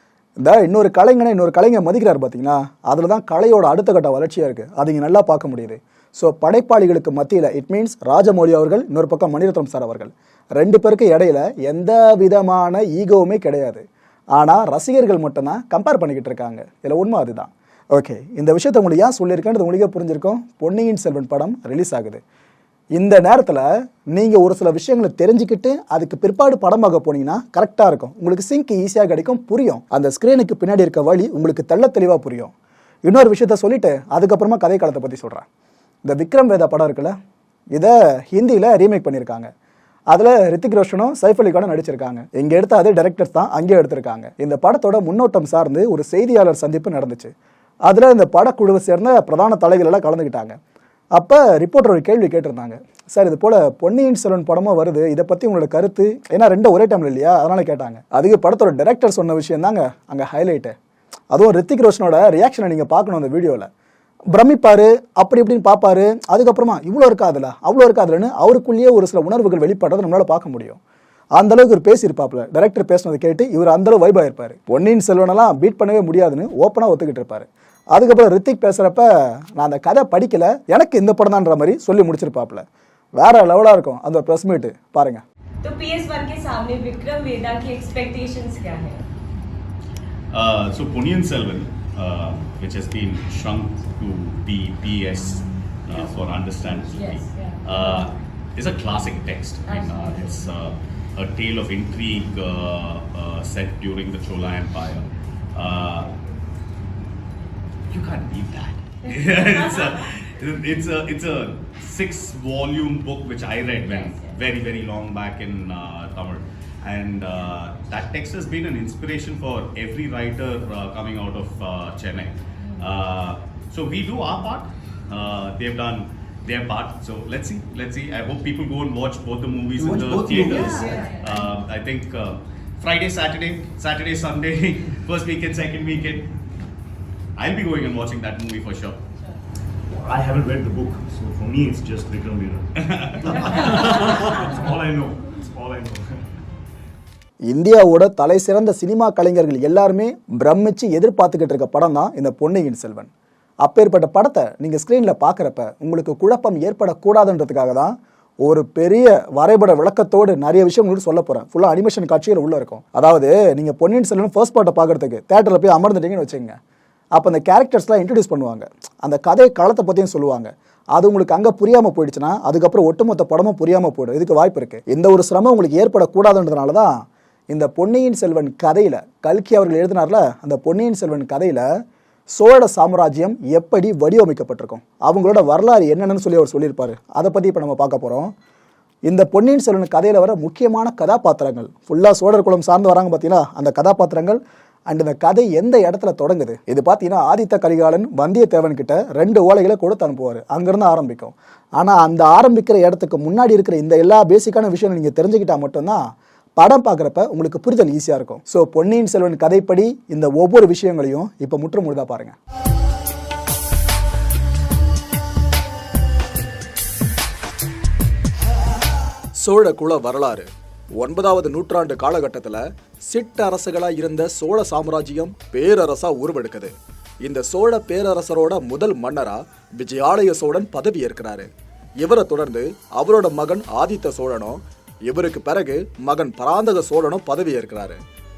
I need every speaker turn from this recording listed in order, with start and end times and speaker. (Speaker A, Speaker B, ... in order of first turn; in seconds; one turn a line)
Speaker A: 0.4-22.2
Speaker A: 23.0-32.5
Speaker A: 33.1-35.5
Speaker A: 36.0-37.1
Speaker A: 37.7-39.5
Speaker A: 40.1-47.3
Speaker A: 47.9-50.6
Speaker A: 51.2-60.7
Speaker A: 61.3-63.7
Speaker A: 64.3-70.8
Speaker A: 71.4-85.2
Speaker B: 85.6-89.0
Speaker C: 90.3-106.1
Speaker D: 95.9-96.9
Speaker B: 96.9-98.1
Speaker B: 99.7-100.5
Speaker C: 107.9-136.3
Speaker B: 109.0-110.0
Speaker B: 113.8-114.4
Speaker D: 129.8-131.1
Speaker B: 130.6-131.5
Speaker C: 137.4-139.0
Speaker D: 139.9-146.2
Speaker C: 142.9-143.6
Speaker A: 147.5-153.1
Speaker A: 153.6-166.6
Speaker A: 167.2-181.7
Speaker A: 182.4-188.3
Speaker A: 189.1-212.4
Speaker A: 219.4-231.5
Speaker A: 232.0-238.0